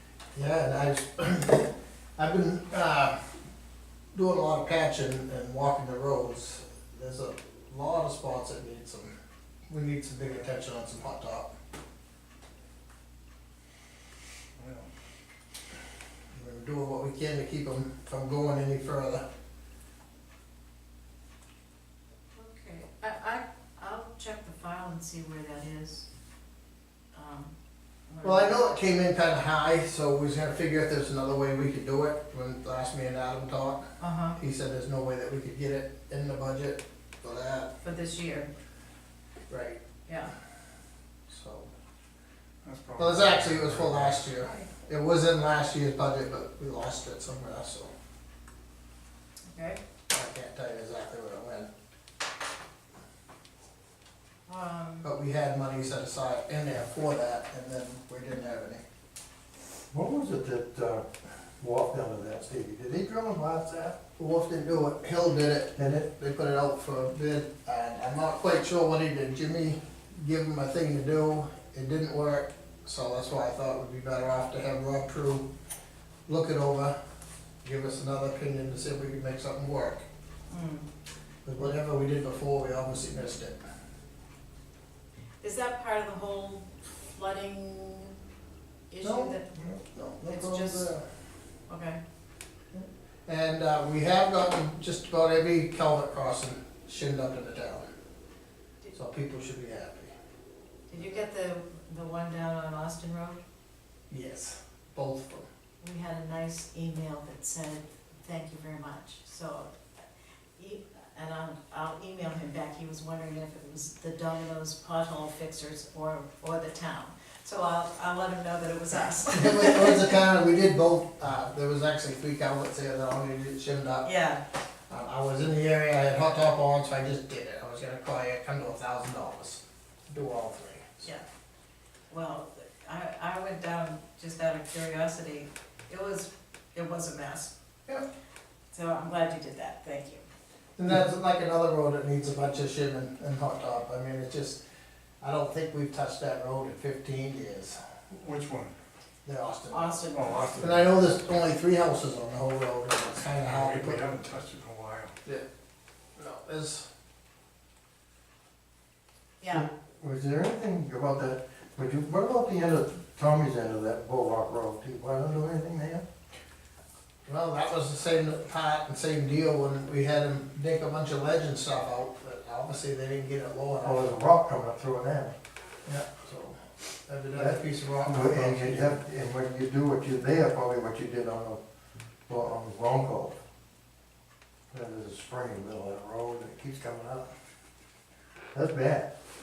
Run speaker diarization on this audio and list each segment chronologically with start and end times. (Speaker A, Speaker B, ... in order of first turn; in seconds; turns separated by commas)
Speaker A: 0.3-3.1, Speaker A: 4.1-9.1, Speaker A: 9.7-11.5, Speaker B: 14.6-14.9, Speaker A: 16.3-19.2, Speaker C: 22.3-26.1, Speaker C: 27.1-27.5, Speaker C: 28.1-28.5, Speaker A: 28.2-33.8, Speaker C: 34.0-34.4, Speaker A: 34.4-37.7, Speaker C: 37.8-38.5, Speaker A: 39.5-39.8, Speaker A: 41.3-41.7, Speaker B: 42.6-44.3, Speaker A: 43.0-47.9, Speaker C: 49.5-49.8, Speaker A: 50.1-51.7, Speaker C: 54.5-55.1, Speaker A: 55.0-58.8, Speaker D: 59.9-61.0, Speaker D: 61.6-64.0, Speaker A: 64.2-75.4, Speaker D: 65.8-66.1, Speaker A: 76.3-77.0, Speaker A: 77.6-80.0, Speaker C: 80.5-80.9, Speaker A: 81.5-83.6, Speaker C: 85.4-88.1, Speaker C: 88.9-90.9, Speaker A: 89.0-91.0, Speaker C: 91.7-92.0, Speaker A: 92.7-97.8, Speaker A: 98.9-100.1, Speaker C: 100.9-103.4, Speaker A: 104.1-105.5, Speaker C: 105.8-109.7, Speaker C: 110.6-120.2, Speaker A: 119.3-124.1, Speaker C: 124.0-124.4, Speaker A: 124.9-131.0, Speaker C: 132.1-137.5, Speaker C: 138.7-140.2, Speaker A: 140.8-144.6, Speaker A: 145.2-147.8, Speaker B: 148.1-148.7, Speaker A: 149.2-150.0, Speaker C: 149.7-150.5, Speaker B: 150.1-150.9, Speaker A: 150.6-154.1, Speaker B: 153.4-155.1, Speaker A: 156.2-156.8, Speaker C: 159.4-159.7, Speaker D: 159.5-166.0, Speaker A: 167.2-174.1, Speaker D: 173.8-175.3, Speaker A: 175.8-179.0, Speaker D: 177.3-181.6, Speaker D: 182.3-183.4, Speaker D: 184.7-187.3, Speaker D: 188.5-189.1